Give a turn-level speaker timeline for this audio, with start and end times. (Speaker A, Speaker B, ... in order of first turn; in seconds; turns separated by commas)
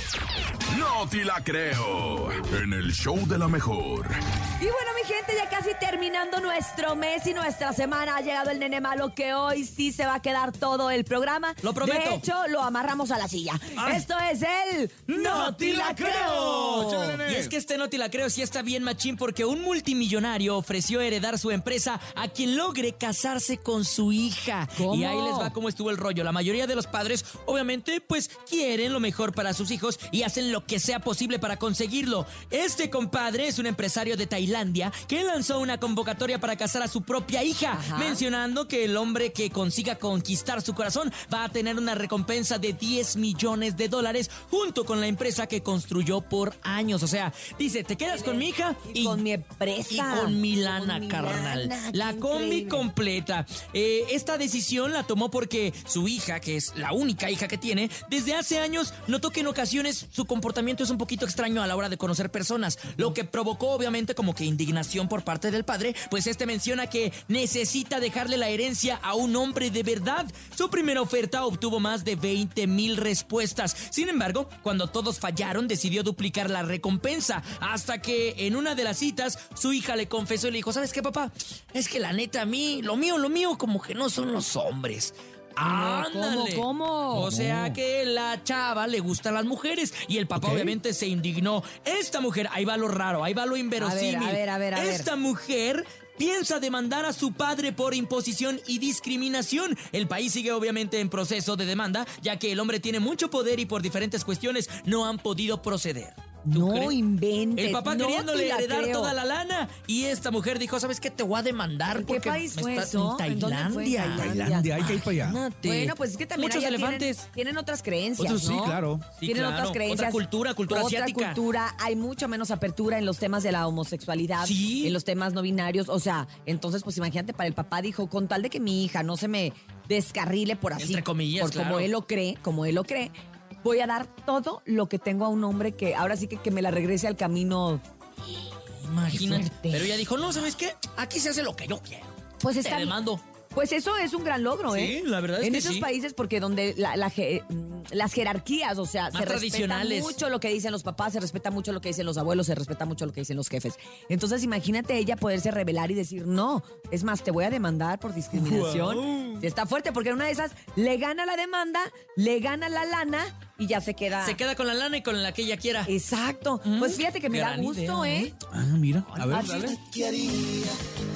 Speaker A: 0.7-4.1, Speaker B: 4.6-17.2, Speaker C: 11.6-12.2, Speaker C: 13.8-14.1, Speaker C: 15.1-49.2, Speaker D: 16.4-17.5, Speaker B: 24.8-25.5, Speaker B: 37.7-38.2, Speaker B: 48.1-52.9, Speaker C: 49.9-107.0, Speaker B: 85.6-87.3, Speaker D: 87.1-87.8, Speaker D: 90.3-90.8, Speaker B: 93.8-95.1, Speaker B: 106.5-109.1, Speaker C: 107.5-117.2, Speaker B: 111.9-114.7, Speaker D: 114.1-115.4, Speaker B: 115.6-137.8, Speaker D: 118.2-119.0, Speaker C: 119.2-121.4, Speaker C: 124.4-125.0, Speaker C: 130.8-131.9, Speaker C: 138.8-143.2, Speaker B: 139.1-140.0, Speaker B: 142.4-142.9, Speaker B: 143.5-164.4, Speaker C: 144.7-145.9, Speaker C: 149.1-150.2, Speaker C: 158.3-159.4, Speaker C: 164.2-165.9, Speaker B: 165.8-168.3, Speaker C: 166.6-168.3, Speaker D: 168.5-170.7, Speaker C: 169.1-169.8, Speaker B: 169.2-169.8